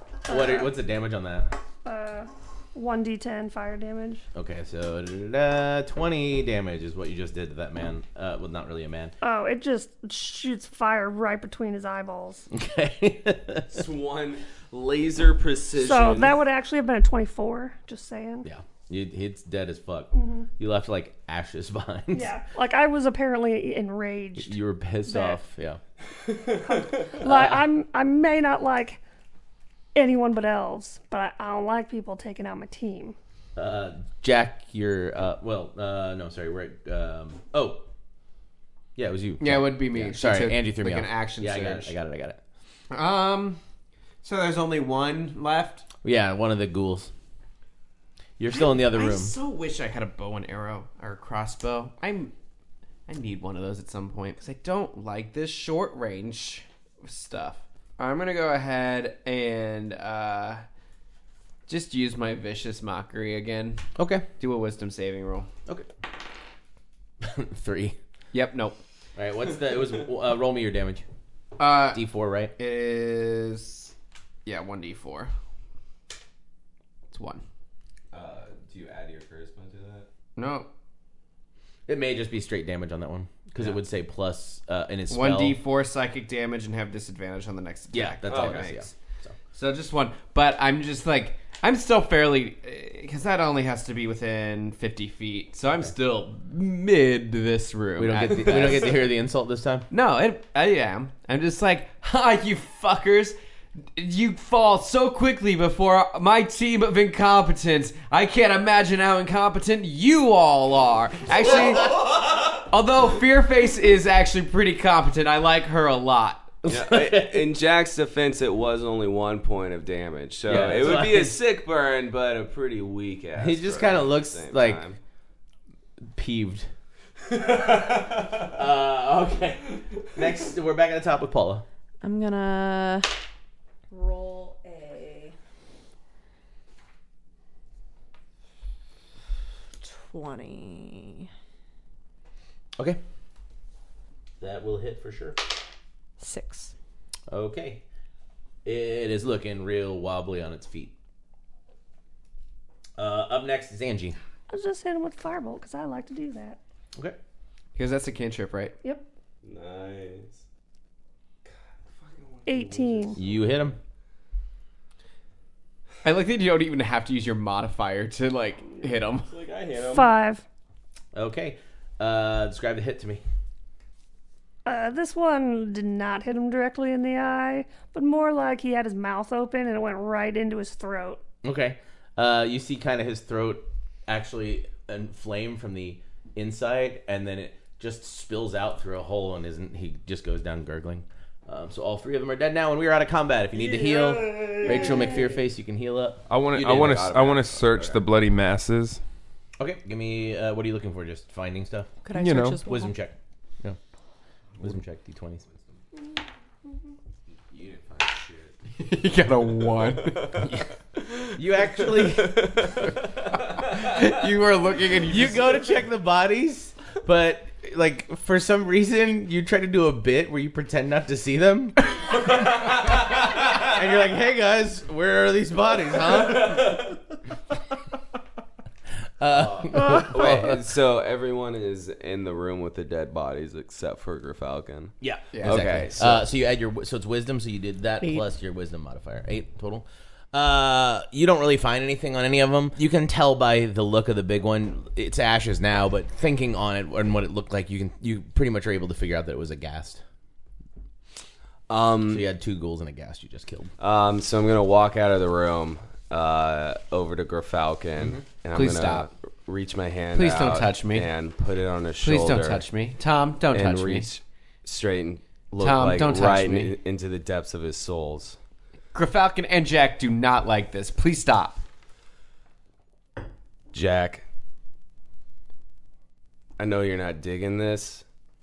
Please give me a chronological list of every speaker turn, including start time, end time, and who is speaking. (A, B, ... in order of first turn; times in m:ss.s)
0:00.3-0:01.5 A
0:00.3-0:00.7 B
0:01.8-0:04.2 B
0:04.4-0:09.1 A
0:09.2-0:12.5 B
0:12.5-0:13.8 A
0:13.7-0:16.4 C
0:15.7-0:18.5 B
0:18.4-0:22.3 A
0:20.1-0:20.5 B
0:22.1-0:25.4 B
0:24.4-0:25.8 A
0:26.3-0:27.0 C
0:26.6-0:29.0 B
0:27.2-0:27.6 A
0:30.0-0:33.2 B
0:33.6-0:37.9 A
0:39.0-0:42.4 A
0:39.4-0:42.0 D
0:42.9-0:43.6 D
0:44.2-0:45.8 D
0:46.0-0:47.1 A
0:48.4-0:49.3 A
0:48.5-0:52.3 D
0:53.1-1:00.6 D
1:01.7-1:05.5 D
1:04.0-1:04.3 A
1:07.2-1:08.0 A
1:08.3-1:08.8 D
1:09.2-1:11.0 A
1:11.6-1:12.0 D
1:11.9-1:12.5 A
1:12.6-1:13.9 D
1:14.4-1:15.3 D
1:17.1-1:17.4 D
1:18.1-1:20.1 C
1:20.4-1:20.7 D
1:21.9-1:25.6 A
1:25.1-1:28.8 D
1:27.9-1:29.4 A
1:28.3-1:28.7 C
1:29.5-1:39.0 D
1:38.0-1:39.9 A
1:39.9-1:43.4 D
1:43.9-1:52.0 D
1:51.8-1:52.2 C
1:52.7-1:56.6 D
1:56.6-1:57.5 A
1:56.7-2:05.0 C
2:00.5-2:01.4 A
2:03.4-2:04.8 A
2:06.1-2:06.7 A
2:07.3-2:08.2 C
2:08.5-2:11.6 A
2:12.0-2:13.1 E
2:13.9-2:15.4 E
2:19.8-2:21.3 E
2:24.4-2:25.4 A
2:26.2-2:26.7 E
2:27.3-2:27.8 A
2:28.6-2:30.9 A
2:33.0-2:34.2 A
2:34.5-2:36.6 B
2:37.8-2:38.8 D
2:39.4-2:40.4 C
2:41.5-2:43.4 C
2:42.5-2:43.2 B
2:43.2-2:43.8 A
2:46.0-2:49.3 D
2:48.7-2:50.1 C
2:49.9-2:50.4 B
2:51.1-2:53.2 A
2:54.7-3:01.2 B
3:01.4-3:17.1 A
3:13.5-3:15.3 C
3:14.6-3:15.0 B
3:16.3-3:19.0 F
3:16.6-3:18.0 C
3:19.6-3:21.9 A
3:22.0-3:23.0 E
3:22.1-3:22.6 F
3:22.6-3:23.8 A
3:24.6-3:25.4 A
3:27.3-3:28.6 C
3:28.8-3:30.6 D
3:29.4-3:30.5 C
3:31.4-3:32.8 A
3:31.9-3:34.2 C
3:33.8-3:35.6 D
3:35.1-3:41.8 A
3:42.3-3:42.8 C
3:43.5-3:46.8 A
3:46.1-3:46.9 C
3:49.2-3:50.6 A
3:49.4-3:56.3 C
3:55.0-4:10.0 A
3:55.3-3:55.9 D
4:11.7-4:12.3 C
4:12.1-4:13.7 A
4:13.8-4:22.6 C
4:18.5-4:19.1 D
4:20.1-4:21.1 D
4:22.0-4:24.1 D
4:23.5-4:28.4 C
4:25.6-4:26.7 D
4:28.9-4:31.6 D
4:33.7-4:34.3 C
4:36.6-4:38.0 C